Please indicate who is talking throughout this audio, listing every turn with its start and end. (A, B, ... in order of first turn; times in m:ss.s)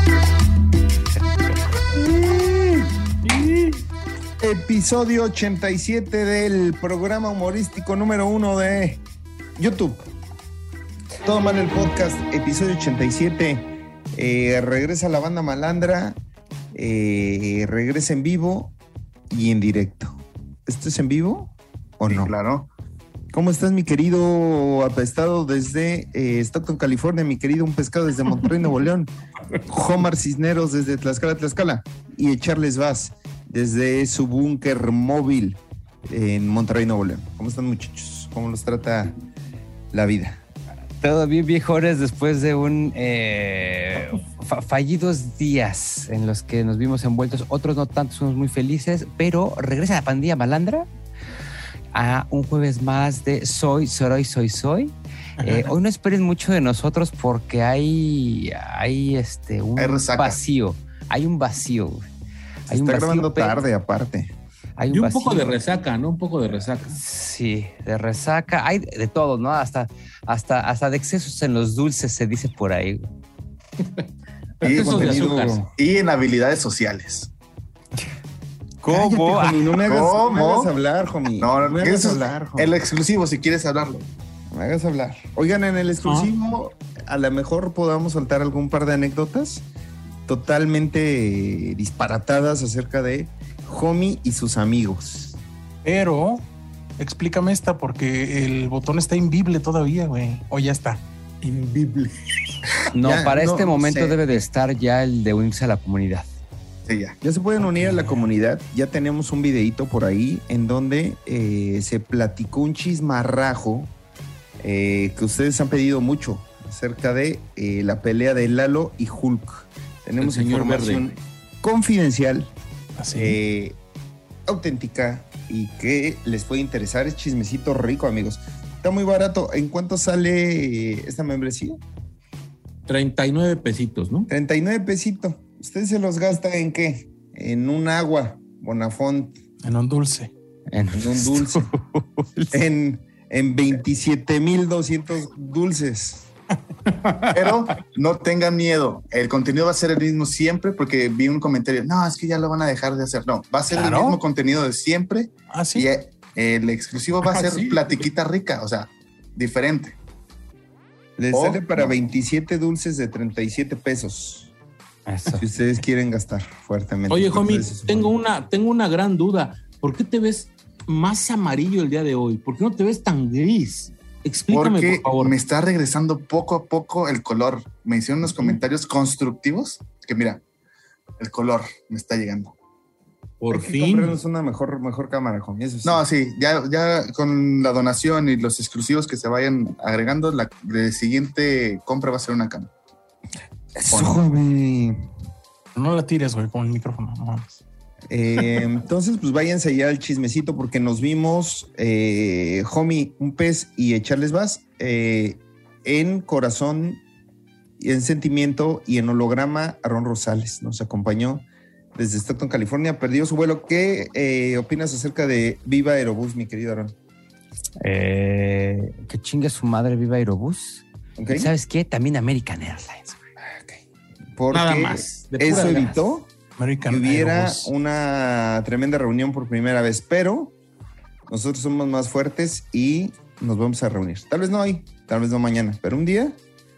0:01.9-0:02.9 A
0:04.4-0:09.0 A
0:09.6-0:10.1 A
0:11.2-0:16.2 A
0:16.7-0:18.7 A
0:19.3-0:22.3 A
0:22.1-0:22.7 B
0:23.3-0:29.1 A
0:29.7-0:39.1 A
0:39.9-0:40.4 A
0:41.0-0:50.9 C
0:51.9-1:02.1 C
0:59.8-1:00.4 B
1:02.7-1:04.3 A
1:02.7-1:03.6 C
1:04.8-1:05.5 C
1:04.9-1:07.0 D
1:06.9-1:13.1 C
1:13.8-1:14.0 D
1:14.6-1:15.7 A
1:14.6-1:15.6 D
1:14.6-1:17.3 B
1:18.8-1:22.7 A
1:18.8-1:19.8 C
1:19.9-1:20.7 B
1:21.4-1:24.1 B
1:24.5-1:29.6 A
1:26.0-1:26.3 D
1:30.3-1:35.4 A
1:35.8-1:36.4 E
1:37.0-1:41.0 E
1:41.4-1:42.1 B
1:42.9-1:46.3 C
1:43.0-1:44.2 A
1:46.9-1:47.2 B
1:47.2-1:53.9 A
1:54.6-2:02.5 A
2:00.2-2:01.2 D
2:03.0-2:03.4 E
2:03.1-2:03.8 A
2:04.4-2:11.8 A
2:12.9-2:14.3 D
2:14.3-2:19.4 A
2:19.6-2:20.3 E
2:20.7-2:22.6 C
2:20.9-2:21.7 A
2:22.5-2:26.3 A
2:27.3-2:40.0 B
2:33.7-2:34.2 E
2:35.5-2:35.9 E
2:37.2-2:38.0 D
2:41.2-2:44.5 A
2:41.3-2:41.9 B
2:45.0-2:45.4 C
2:45.3-2:48.1 A
2:47.1-2:55.4 D
2:54.5-3:00.4 B
3:01.2-3:02.5 B
3:03.4-3:04.2 D
3:03.5-3:06.0 A
3:05.8-3:12.7 B
3:13.8-3:15.1 A
3:13.9-3:14.2 B
3:15.7-3:17.6 E
3:18.1-3:27.0 A
3:27.8-3:36.9 A
3:37.8-3:43.2 C
3:41.2-3:41.5 A
3:43.4-3:43.8 A
3:44.3-3:46.3 A
3:44.5-3:46.0 D
3:46.6-3:47.7 E
3:46.9-3:50.5 A
3:51.3-3:56.4 A